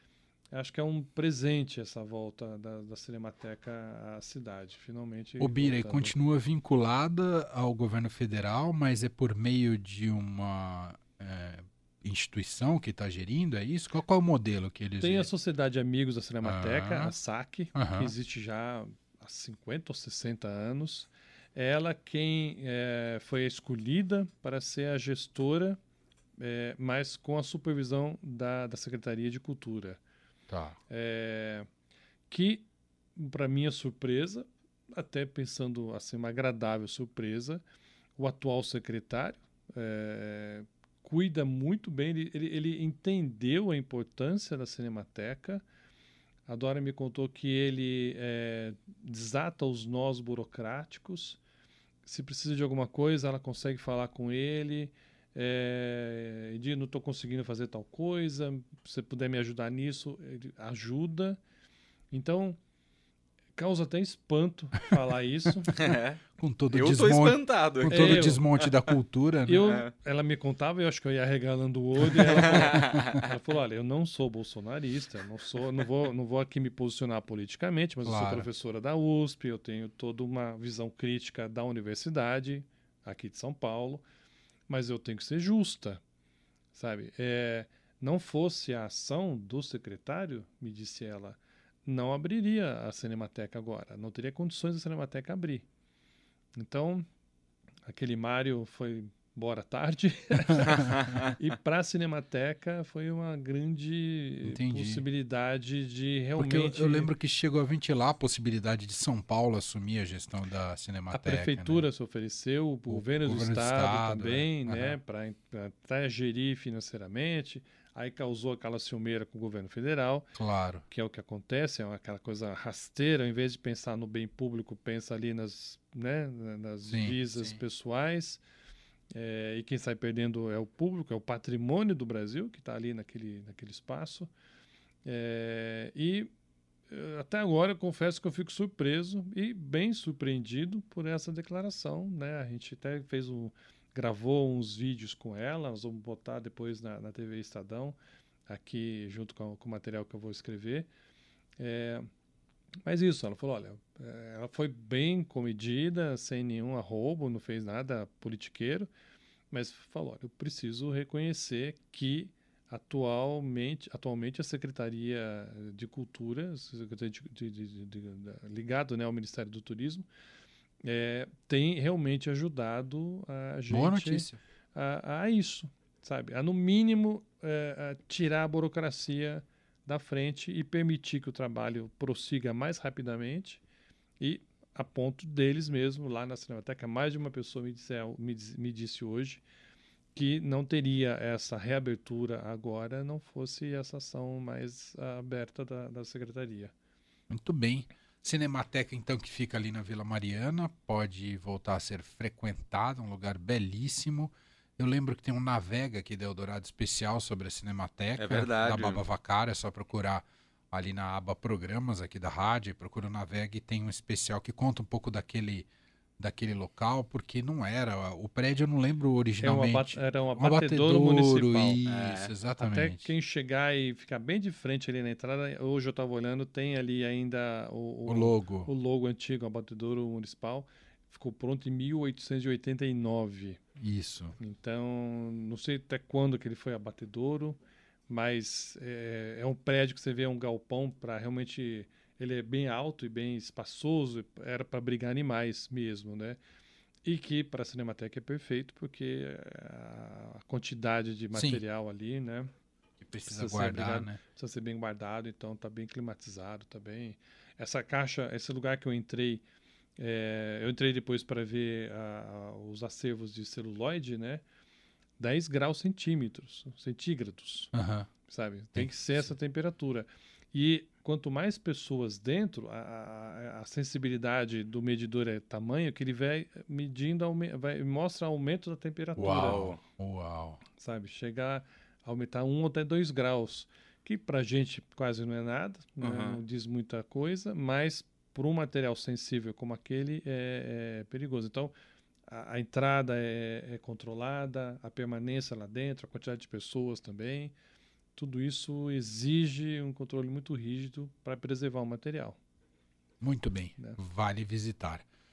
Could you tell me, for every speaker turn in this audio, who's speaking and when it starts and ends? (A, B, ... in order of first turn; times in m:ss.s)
0:00.5-0:06.2 A
0:05.4-0:15.3 B
0:15.0-0:25.8 A
0:16.4-0:17.1 B
0:17.7-0:18.1 B
0:26.4-0:30.0 A
0:30.5-0:30.8 B
0:30.9-0:31.7 A
0:32.3-0:37.6 A
0:38.2-0:45.6 A
0:46.5-0:51.4 A
0:52.0-1:01.4 A
1:02.1-1:02.6 A
1:03.6-1:05.8 A
1:05.7-1:06.2 C
1:06.4-1:09.7 B
1:06.7-1:08.7 C
1:07.9-1:08.4 A
1:09.4-1:24.0 A
1:12.2-1:13.1 C
1:18.0-1:18.5 B
1:24.7-1:26.0 A
1:26.7-1:35.6 A
1:36.6-1:37.0 A
1:37.8-1:47.1 A
1:44.4-1:45.0 B
1:46.4-1:51.9 B
1:51.1-2:08.4 A
1:52.9-1:55.0 B
2:00.3-2:00.8 B
2:06.9-2:07.6 B
2:09.1-2:14.3 A
2:15.0-2:16.3 A
2:16.9-2:28.0 A
2:28.5-2:30.9 A
2:31.6-2:32.0 A
2:32.8-2:38.9 A
2:39.5-2:50.1 A
2:50.8-3:03.6 A
2:53.7-2:54.4 B
3:04.2-3:09.4 A
3:10.1-3:16.7 A
3:17.3-3:35.7 B
3:28.2-3:29.0 C
3:36.2-3:43.1 B
3:39.4-3:41.8 A
3:41.8-3:42.3 C
3:42.6-3:53.6 A
3:48.0-3:48.7 B
3:53.8-3:54.3 B
3:54.4-4:06.4 A
4:07.0-4:12.5 A
4:11.3-4:11.6 B
4:13.0-4:14.2 B
4:13.2-4:19.4 A
4:20.0-4:24.4 A
4:25.2-4:27.7 A
4:27.7-4:28.1 B
4:28.3-4:39.7 A
4:28.7-4:29.3 B
4:39.2-4:39.8 C
4:39.2-4:40.6 B
4:40.8-4:51.7 A
4:46.0-4:46.4 C
4:52.3-4:57.5 A
4:58.1-5:02.4 A
5:03.2-5:05.0 B